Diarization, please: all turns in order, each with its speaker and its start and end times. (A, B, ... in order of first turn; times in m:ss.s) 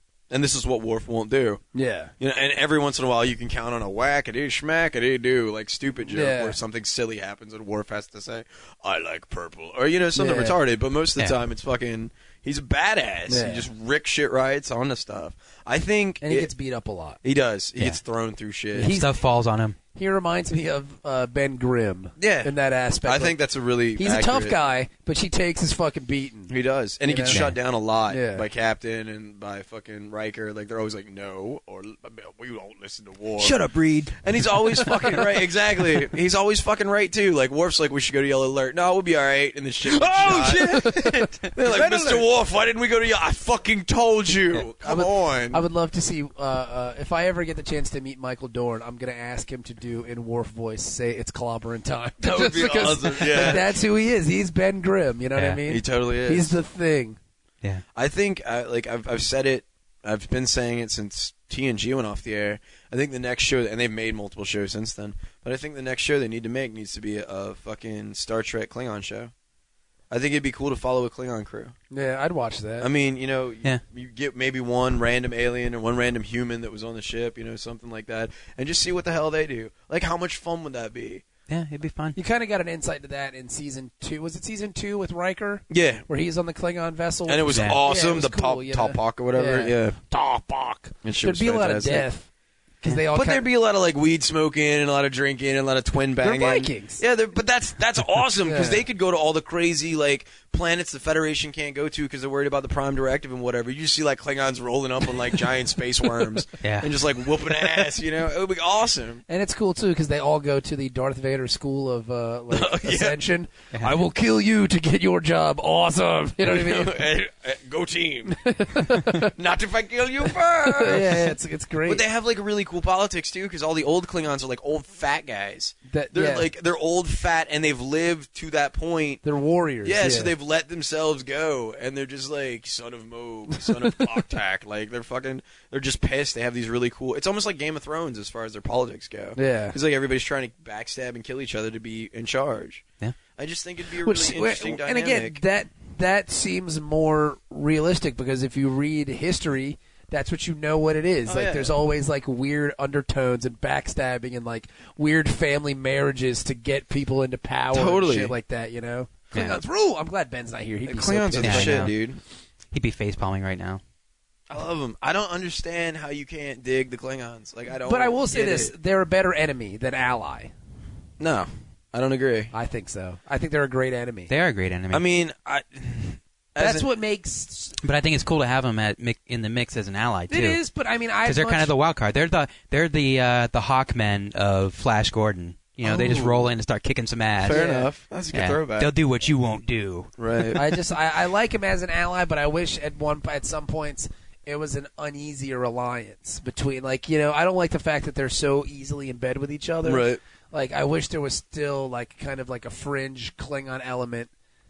0:00.3-0:01.6 A
0:01.7-0:02.1 B
0:02.2-0:16.5 A
0:06.1-0:06.6 B
0:10.2-0:10.6 B
0:13.3-0:13.7 B
0:16.2-0:17.2 B
0:17.2-0:19.0 A
0:18.8-0:19.1 B
0:18.8-0:19.8 C
0:20.0-0:23.4 B
0:22.2-0:22.5 A
0:23.0-0:24.6 A
0:24.0-0:26.5 B
0:26.5-0:33.6 A
0:27.0-0:27.4 B
0:27.3-0:27.6 C
0:28.1-0:28.5 B
0:33.4-0:35.2 C
0:34.2-0:45.6 A
0:40.0-0:42.2 C
0:40.3-0:41.8 B
0:44.8-0:57.2 B
0:52.2-0:53.8 A
0:53.3-0:53.6 C
0:55.4-0:55.6 C
0:55.7-0:56.6 A
0:58.0-1:09.3 A
1:10.1-1:11.8 A
1:11.9-1:12.9 B
1:12.8-1:21.2 A
1:21.5-1:22.2 C
1:22.2-1:32.3 B
1:25.7-1:26.0 A
1:27.3-1:30.0 A
1:27.5-1:27.8 C
1:31.0-1:32.1 A
1:32.8-1:33.5 B
1:33.1-1:49.2 A
1:36.2-1:37.0 B
1:38.4-1:38.8 B
1:46.6-1:46.9 C
1:49.3-1:57.0 B
1:52.5-1:53.2 A
1:53.7-1:54.0 C
1:56.4-1:58.4 A
1:58.3-1:59.3 B
1:59.1-2:09.2 A
2:00.6-2:02.0 B
2:05.9-2:06.5 B
2:09.2-2:10.3 B
2:09.8-2:22.8 A
2:19.4-2:19.8 B
2:23.4-2:25.4 A
2:24.0-2:41.9 B
2:31.3-2:31.8 A
2:37.7-2:38.4 A
2:39.3-2:39.6 C
2:40.9-2:42.2 A
2:41.4-2:42.0 C
2:42.7-2:43.8 C
2:44.5-2:48.7 A
2:47.8-2:50.5 B
2:51.2-2:52.5 A
2:52.5-2:54.3 B
2:54.3-2:55.0 C
2:54.9-2:56.9 A
2:56.6-2:57.8 B
2:57.8-3:00.6 C
3:00.3-3:01.7 B
3:01.2-3:07.6 C
3:05.8-3:06.5 A
3:07.4-3:08.9 A
3:07.4-3:07.9 B
3:08.3-3:10.1 C
3:10.2-3:10.7 A
3:10.6-3:24.3 B
3:19.8-3:20.2 A